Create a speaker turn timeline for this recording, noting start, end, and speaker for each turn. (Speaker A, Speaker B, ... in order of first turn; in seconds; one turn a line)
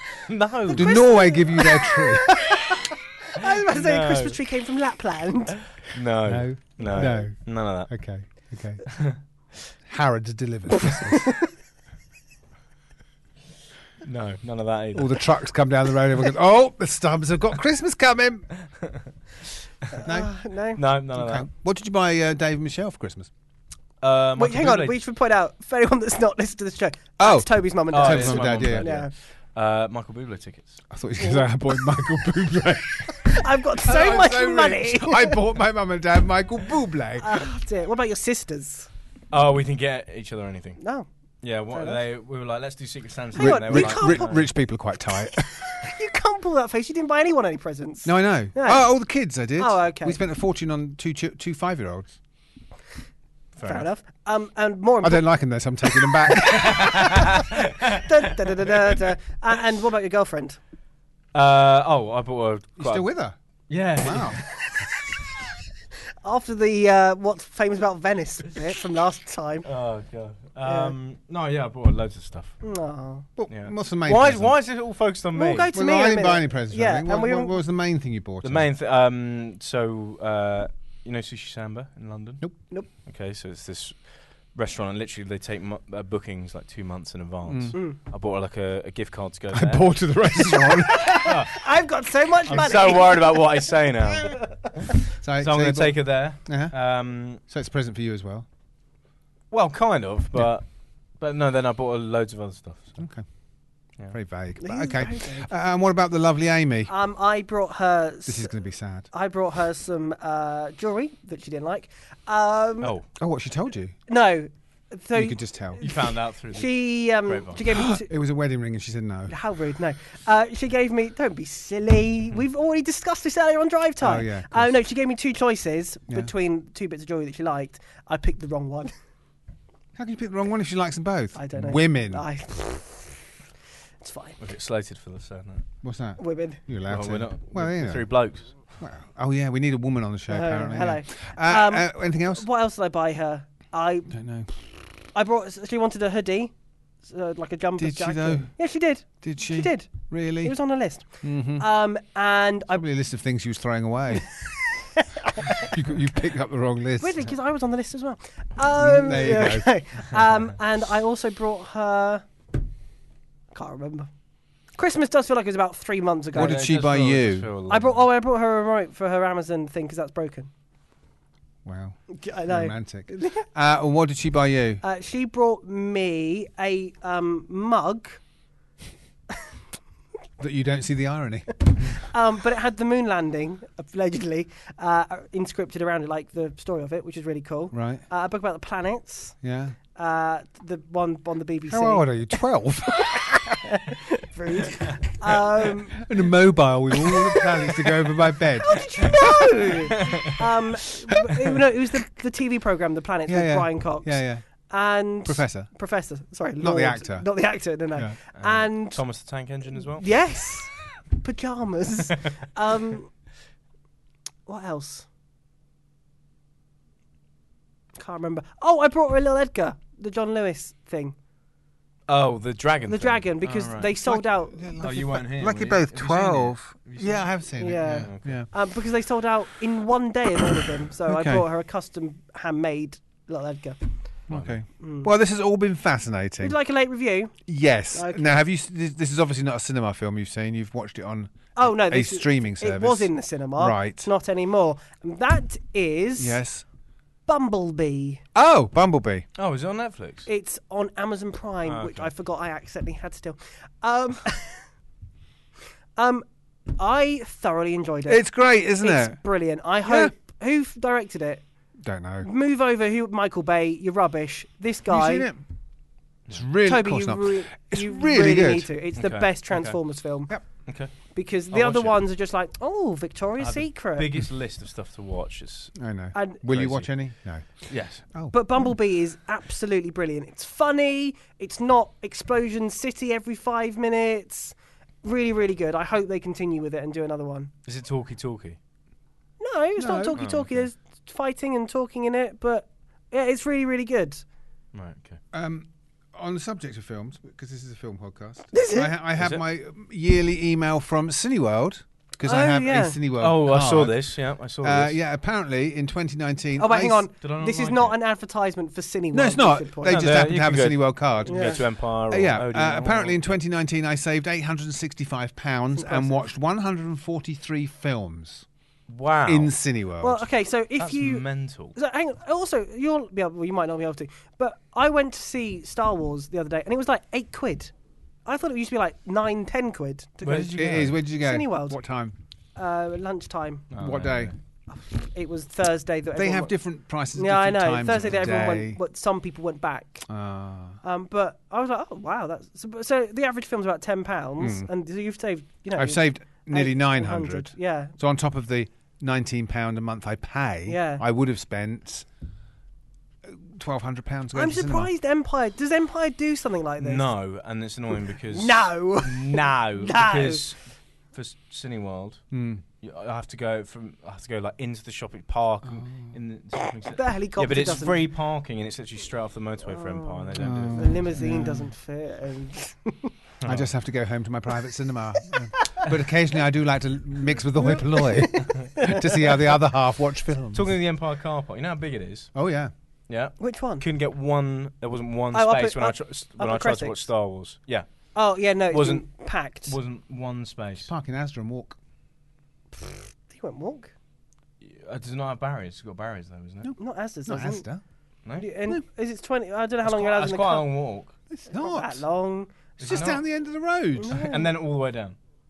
Speaker A: 0.3-1.0
Speaker B: 0.7-2.6
Speaker C: 0.7-5.6
Speaker A: 3.4-4.4
Speaker A: 5.8-7.9
Speaker B: 6.2-9.0
Speaker B: 9.8-11.3
Speaker C: 10.9-11.4
Speaker A: 14.0-15.2
Speaker B: 14.9-18.5
Speaker C: 19.9-20.8
Speaker B: 20.0-20.3
Speaker A: 20.8-21.4
Speaker B: 21.1-23.3
Speaker A: 24.0-25.0
Speaker C: 24.4-29.1
Speaker B: 27.2-28.9
Speaker A: 27.9-30.8
Speaker B: 30.9-37.5
Speaker C: 31.2-31.9
Speaker C: 33.2-35.4
Speaker C: 37.2-38.9
Speaker A: 39.3-40.8
Speaker C: 40.8-41.1
Speaker A: 41.4-44.5
Speaker C: 41.7-42.0
Speaker C: 43.3-44.4
Speaker B: 43.4-45.9
Speaker C: 45.6-48.9
Speaker B: 48.0-52.1
Speaker C: 49.6-50.2
Speaker A: 53.5-53.9
Speaker C: 53.6-55.4
Speaker B: 55.0-57.0
Speaker C: 55.9-60.6
Speaker A: 56.5-58.0
Speaker A: 61.3-63.1
Speaker B: 62.8-64.4
Speaker A: 63.7-64.4
Speaker C: 66.2-69.7
Speaker A: 69.6-72.6
Speaker C: 70.6-70.9
Speaker C: 72.6-73.2
Speaker B: 73.4-74.5
Speaker A: 73.5-75.7
Speaker C: 75.3-77.6
Speaker B: 75.7-78.7
Speaker A: 78.4-89.9
Speaker B: 87.5-87.7
Speaker B: 89.5-91.4
Speaker C: 90.6-93.5
Speaker A: 91.2-91.5
Speaker A: 92.5-97.4
Speaker B: 95.2-96.8
Speaker B: 97.3-98.5
Speaker A: 99.5-103.0
Speaker B: 103.0-103.2
Speaker B: 104.1-106.9
Speaker C: 104.6-105.5
Speaker C: 106.9-108.5
Speaker B: 108.2-109.1
Speaker C: 109.1-112.9
Speaker B: 113.2-113.9
Speaker C: 114.1-118.1
Speaker B: 115.1-115.8
Speaker A: 115.8-117.6
Speaker B: 117.7-119.3
Speaker C: 119.3-128.9
Speaker B: 124.0-124.7
Speaker B: 129.9-132.2
Speaker C: 131.3-133.2
Speaker C: 134.0-134.4
Speaker A: 134.4-135.6
Speaker B: 135.8-138.1
Speaker C: 136.2-136.6
Speaker A: 136.9-138.6
Speaker B: 138.7-142.4
Speaker C: 140.3-144.1
Speaker B: 144.1-144.5
Speaker C: 145.1-146.5
Speaker C: 147.0-152.8
Speaker B: 147.8-148.6
Speaker B: 149.1-150.6
Speaker B: 151.1-151.7
Speaker B: 152.7-154.3
Speaker C: 154.9-155.7
Speaker B: 155.6-157.3
Speaker C: 157.0-162.2
Speaker B: 158.7-159.7
Speaker C: 163.5-164.1
Speaker C: 164.8-166.8
Speaker B: 166.3-167.5
Speaker A: 166.3-168.1
Speaker C: 167.7-170.5
Speaker B: 171.6-174.8
Speaker C: 172.1-173.4
Speaker C: 174.8-178.2
Speaker B: 180.4-181.9
Speaker C: 181.7-189.3
Speaker B: 187.7-188.0
Speaker B: 189.4-189.8
Speaker C: 189.9-192.1
Speaker B: 191.7-193.6
Speaker C: 193.6-196.0
Speaker B: 195.6-199.5
Speaker C: 197.0-197.8
Speaker C: 198.6-209.0
Speaker A: 200.0-200.3
Speaker B: 203.2-204.4
Speaker B: 205.2-205.7
Speaker B: 206.6-207.3
Speaker A: 208.3-210.1
Speaker C: 210.0-213.1
Speaker C: 214.5-215.1
Speaker C: 218.0-221.1
Speaker A: 222.1-223.9
Speaker C: 222.8-224.6
Speaker B: 224.0-228.5
Speaker A: 224.8-227.2
Speaker C: 227.6-233.8
Speaker A: 227.9-228.4
Speaker B: 231.1-231.4
Speaker B: 234.3-236.6
Speaker A: 234.3-234.6
Speaker C: 234.8-235.1
Speaker C: 236.4-237.3
Speaker B: 237.5-244.1
Speaker C: 237.9-238.2
Speaker C: 241.6-246.4
Speaker B: 246.2-246.6
Speaker C: 247.3-248.2
Speaker B: 248.3-249.2
Speaker A: 249.3-250.3
Speaker C: 250.2-254.6
Speaker A: 251.6-252.1
Speaker C: 256.0-256.2
Speaker C: 256.8-258.3
Speaker B: 258.1-259.2
Speaker C: 258.8-261.4
Speaker B: 259.8-260.1
Speaker B: 261.8-262.3
Speaker C: 262.2-265.3
Speaker B: 264.9-265.4
Speaker B: 266.3-268.7
Speaker C: 266.6-270.3
Speaker A: 269.0-269.8
Speaker A: 270.6-270.9
Speaker C: 271.1-274.1
Speaker A: 271.5-272.0
Speaker A: 273.4-275.7
Speaker B: 275.8-278.7
Speaker C: 276.1-276.4
Speaker A: 276.5-276.9
Speaker A: 277.7-278.0
Speaker C: 278.3-287.5
Speaker A: 287.6-288.6
Speaker C: 289.4-294.2
Speaker B: 289.8-290.2
Speaker A: 290.1-290.6
Speaker A: 294.7-295.2
Speaker B: 295.3-304.0
Speaker C: 298.5-298.9
Speaker A: 299.2-299.4
Speaker C: 302.2-303.0
Speaker A: 303.2-305.0
Speaker B: 304.6-307.1
Speaker C: 306.6-310.0
Speaker A: 307.2-308.0
Speaker B: 309.1-318.4
Speaker A: 309.8-313.3
Speaker C: 311.2-311.6
Speaker C: 315.7-316.1
Speaker A: 318.9-319.5
Speaker B: 319.2-320.2
Speaker C: 320.0-327.7
Speaker A: 320.8-321.8
Speaker C: 328.2-331.8
Speaker A: 330.2-330.9
Speaker B: 330.3-332.1
Speaker C: 332.6-333.7
Speaker A: 333.7-334.3
Speaker B: 333.8-334.3
Speaker C: 334.7-336.5
Speaker B: 336.1-338.8
Speaker C: 337.1-340.1
Speaker B: 340.1-340.8
Speaker C: 340.8-347.9
Speaker B: 344.4-344.7
Speaker B: 345.7-352.1
Speaker C: 350.6-351.0
Speaker B: 353.2-354.9
Speaker C: 354.3-357.1
Speaker A: 356.8-360.6
Speaker C: 358.3-360.5
Speaker A: 361.1-362.2
Speaker B: 362.3-362.6
Speaker A: 362.8-371.1
Speaker B: 365.7-366.0
Speaker C: 366.9-368.1
Speaker C: 369.7-373.1
Speaker B: 370.4-371.7
Speaker A: 373.4-373.7
Speaker B: 373.4-380.7
Speaker C: 375.5-375.9
Speaker C: 377.6-379.4
Speaker A: 380.5-382.3
Speaker B: 382.3-382.7
Speaker A: 383.1-387.9
Speaker C: 383.4-383.8
Speaker C: 385.3-387.0
Speaker C: 388.1-389.7
Speaker A: 388.7-390.9
Speaker B: 390.9-391.7
Speaker C: 392.8-393.9
Speaker A: 394.6-396.7
Speaker B: 396.6-397.8
Speaker C: 396.8-397.6
Speaker C: 398.4-400.7
Speaker A: 399.8-401.1
Speaker B: 401.3-402.0
Speaker C: 401.5-403.0
Speaker A: 402.8-403.2
Speaker B: 402.8-404.2
Speaker C: 403.9-404.5
Speaker A: 404.1-405.1